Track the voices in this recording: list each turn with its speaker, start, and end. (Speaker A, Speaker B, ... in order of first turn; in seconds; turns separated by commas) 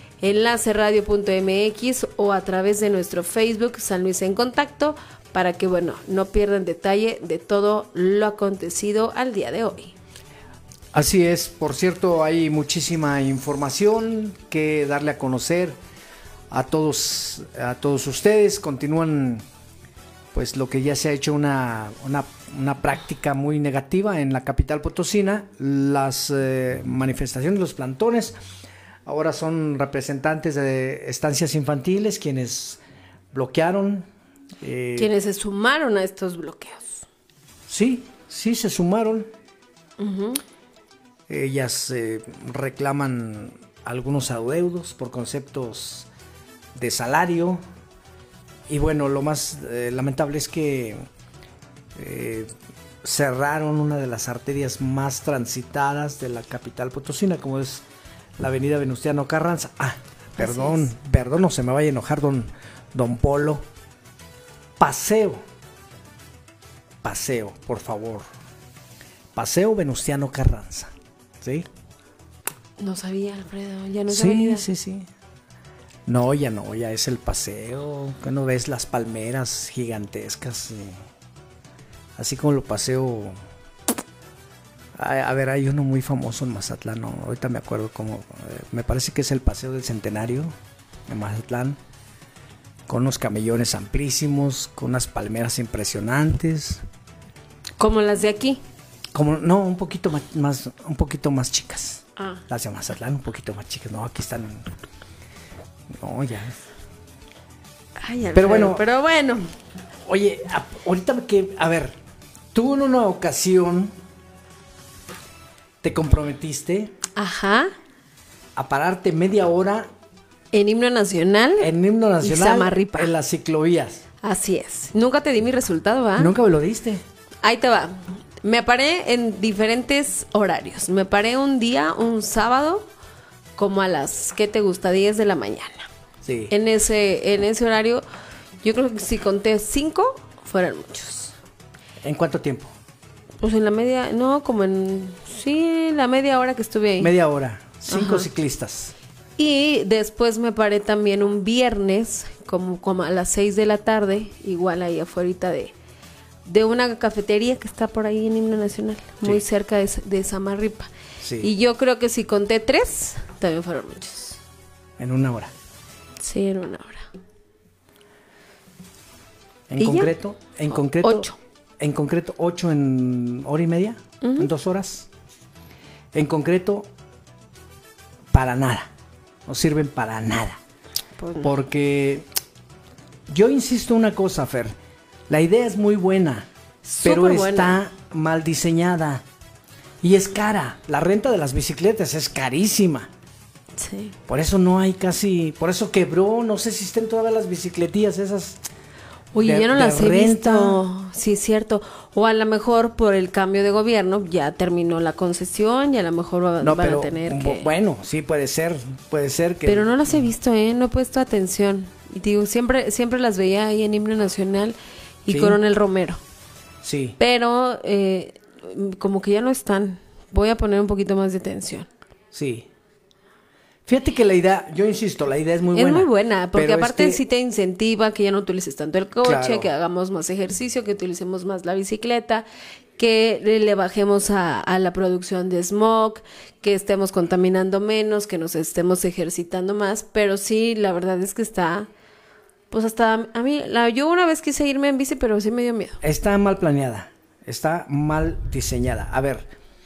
Speaker A: 0.2-9.9, Speaker B: 10.9-15.8, Speaker B: 16.5-19.4, Speaker B: 20.3-28.4, Speaker B: 29.1-32.8, Speaker B: 33.3-34.1, Speaker B: 34.6-35.1, Speaker A: 35.0-37.0, Speaker B: 37.7-39.3, Speaker A: 40.0-40.4, Speaker B: 41.3-46.1, Speaker B: 46.8-47.6, Speaker B: 48.7-51.0, Speaker B: 52.0-52.5, Speaker B: 53.0-57.8, Speaker B: 58.4-63.6, Speaker A: 60.4-60.9, Speaker B: 64.8-65.4, Speaker B: 67.0-68.3, Speaker B: 69.3-71.7, Speaker A: 72.8-74.7, Speaker B: 74.1-75.1, Speaker B: 76.0-81.0, Speaker B: 82.2-83.4, Speaker B: 85.0-90.5, Speaker B: 91.1-91.8, Speaker B: 92.9-96.8, Speaker A: 97.8-98.6, Speaker B: 99.1-104.7, Speaker A: 102.2-102.4, Speaker B: 105.9-106.7, Speaker A: 108.0-109.5, Speaker B: 108.3-108.8, Speaker B: 110.0-112.0, Speaker B: 112.5-113.9, Speaker B: 115.8-116.9, Speaker A: 117.2-117.7, Speaker B: 118.5-119.9, Speaker A: 120.5-121.7, Speaker B: 121.6-124.0, Speaker A: 122.2-123.1, Speaker A: 124.2-126.3, Speaker B: 126.2-127.0, Speaker A: 127.4-132.9, Speaker A: 133.6-135.9, Speaker B: 136.2-136.5, Speaker A: 136.5-138.0, Speaker A: 138.6-141.3, Speaker B: 142.0-142.7, Speaker A: 143.4-147.1, Speaker B: 147.0-148.9, Speaker A: 147.9-148.3, Speaker A: 149.4-155.7, Speaker A: 156.4-164.4, Speaker B: 161.2-161.5, Speaker B: 165.0-165.5, Speaker A: 166.2-167.1, Speaker B: 169.7-175.1, Speaker A: 169.8-170.1, Speaker A: 170.7-171.3, Speaker A: 174.2-174.5, Speaker B: 176.1-176.9, Speaker B: 178.3-178.9, Speaker B: 179.4-180.6, Speaker A: 181.2-181.5, Speaker B: 181.4-182.2, Speaker B: 183.3-184.7, Speaker B: 185.3-186.5, Speaker A: 186.8-187.8, Speaker B: 187.0-189.2, Speaker B: 190.0-193.1, Speaker A: 193.8-194.2, Speaker B: 194.3-198.6, Speaker A: 199.3-207.7, Speaker B: 199.4-200.8, Speaker B: 206.6-210.3, Speaker A: 209.7-216.2, Speaker B: 215.3-215.6, Speaker B: 216.8-217.2, Speaker A: 217.2-221.9, Speaker B: 222.3-222.7, Speaker B: 223.8-227.2, Speaker A: 225.7-232.5, Speaker B: 229.2-229.7, Speaker A: 233.0-241.9, Speaker A: 242.7-246.0, Speaker B: 246.0-249.5